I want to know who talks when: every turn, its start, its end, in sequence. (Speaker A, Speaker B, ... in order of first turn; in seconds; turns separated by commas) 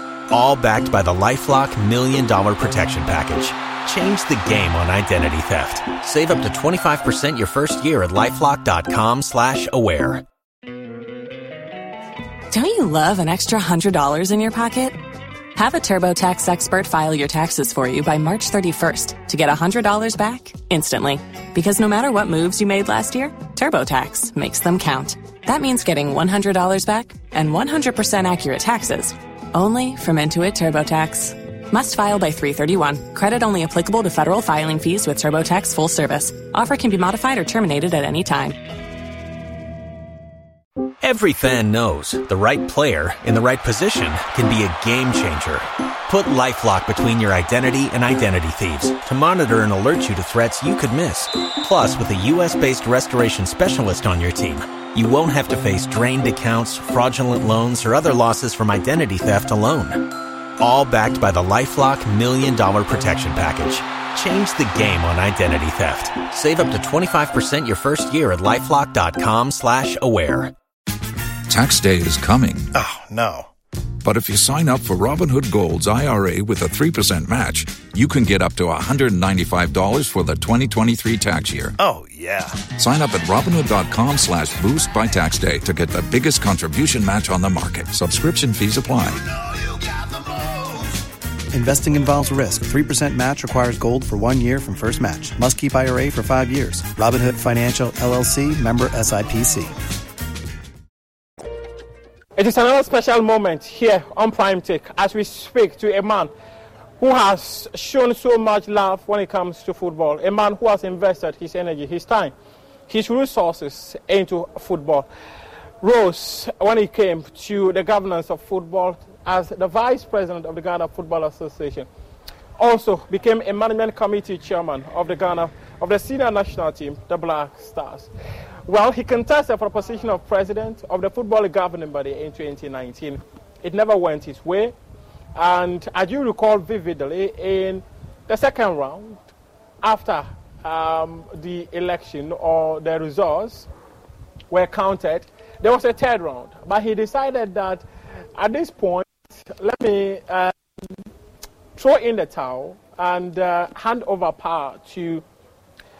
Speaker A: 0.3-10.2, Speaker B: 12.5-15.0, Speaker B: 15.5-38.6, Speaker A: 41.0-60.1, Speaker A: 60.6-70.5, Speaker C: 71.5-72.7, Speaker D: 72.7-73.5, Speaker C: 74.0-81.8, Speaker D: 81.8-82.7, Speaker C: 82.7-89.2, Speaker D: 89.4-90.0, Speaker D: 90.7-91.0, Speaker D: 91.5-99.8, Speaker E: 102.3-106.3, Speaker E: 107.0-112.3, Speaker E: 112.9-115.1, Speaker E: 115.8-121.9, Speaker E: 122.6-128.1, Speaker E: 128.7-134.7, Speaker E: 135.3-139.2, Speaker E: 139.8-143.7, Speaker E: 144.5-150.5, Speaker E: 151.8-155.2